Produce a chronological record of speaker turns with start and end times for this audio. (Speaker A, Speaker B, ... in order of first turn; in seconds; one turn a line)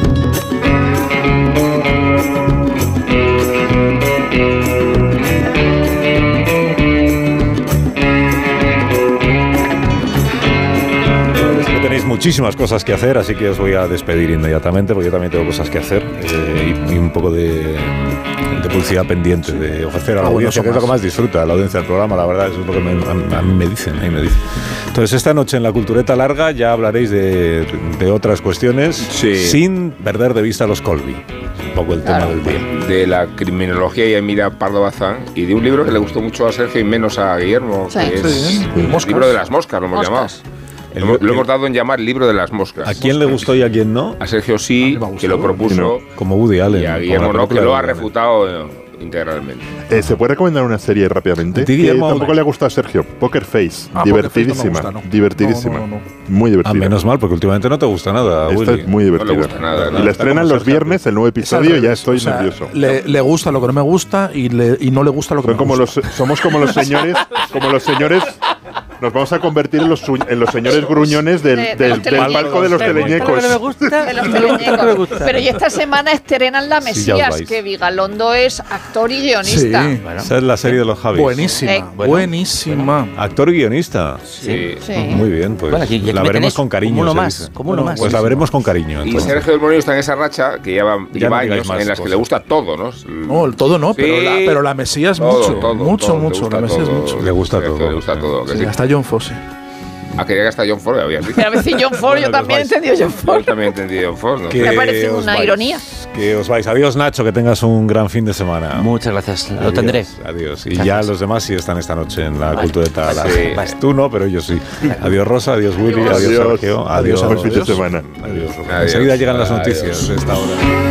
Speaker A: 11.3-32.7
Speaker B: 20.2-20.9
Speaker C: 29.1-29.6
Speaker D: 32.0-32.4
Speaker C: 32.5-40.4
Speaker D: 37.9-38.2
Speaker B: 38.1-39.4
Speaker E: 40.0-40.4
Speaker A: 40.9-41.5
Speaker C: 41.0-43.4
Speaker A: 42.8-44.2
Speaker C: 44.2-46.1
Speaker B: 44.8-45.8
Speaker F: 45.7-46.0
Speaker A: 46.1-48.1
Speaker C: 46.7-49.7
Speaker F: 49.9-57.0
Speaker A: 49.9-50.2
Speaker A: 51.5-52.4
Speaker B: 54.0-56.1
Speaker A: 56.6-61.0
Speaker F: 58.5-62.7
Speaker C: 59.1-60.2
Speaker B: 61.4-66.8
Speaker F: 65.5-68.4
Speaker F: 69.0-74.0
Speaker D: 70.7-73.2
Speaker A: 72.1-73.3
Speaker E: 72.7-75.6
Speaker D: 74.0-80.0
Speaker B: 74.4-74.9
Speaker A: 76.8-77.6
Speaker B: 79.4-80.0
Speaker E: 80.0-80.8
Speaker A: 80.2-81.6
Speaker B: 81.1-83.2
Speaker D: 81.6-81.9
Speaker E: 82.0-82.9
Speaker A: 83.2-84.2
Speaker C: 84.3-84.9
Speaker E: 84.4-84.7
Speaker D: 84.8-85.3
Speaker A: 84.9-89.4
Speaker E: 85.7-88.4
Speaker B: 87.7-88.4
Speaker C: 89.0-94.6
Speaker A: 91.1-92.2
Speaker B: 93.3-97.2
Speaker C: 95.2-98.8
Speaker A: 97.2-98.3
Speaker B: 98.5-99.4
Speaker C: 100.2-101.5
Speaker D: 101.3-103.6
Speaker A: 101.9-102.8
Speaker C: 103.1-104.8
Speaker A: 104.5-108.9
Speaker D: 104.6-105.8
Speaker E: 108.7-110.1
Speaker A: 109.6-120.7
Speaker E: 110.7-111.1
Speaker E: 112.5-113.8
Speaker C: 113.1-113.5
Speaker F: 116.0-118.2
Speaker B: 116.9-117.8
Speaker C: 118.7-120.2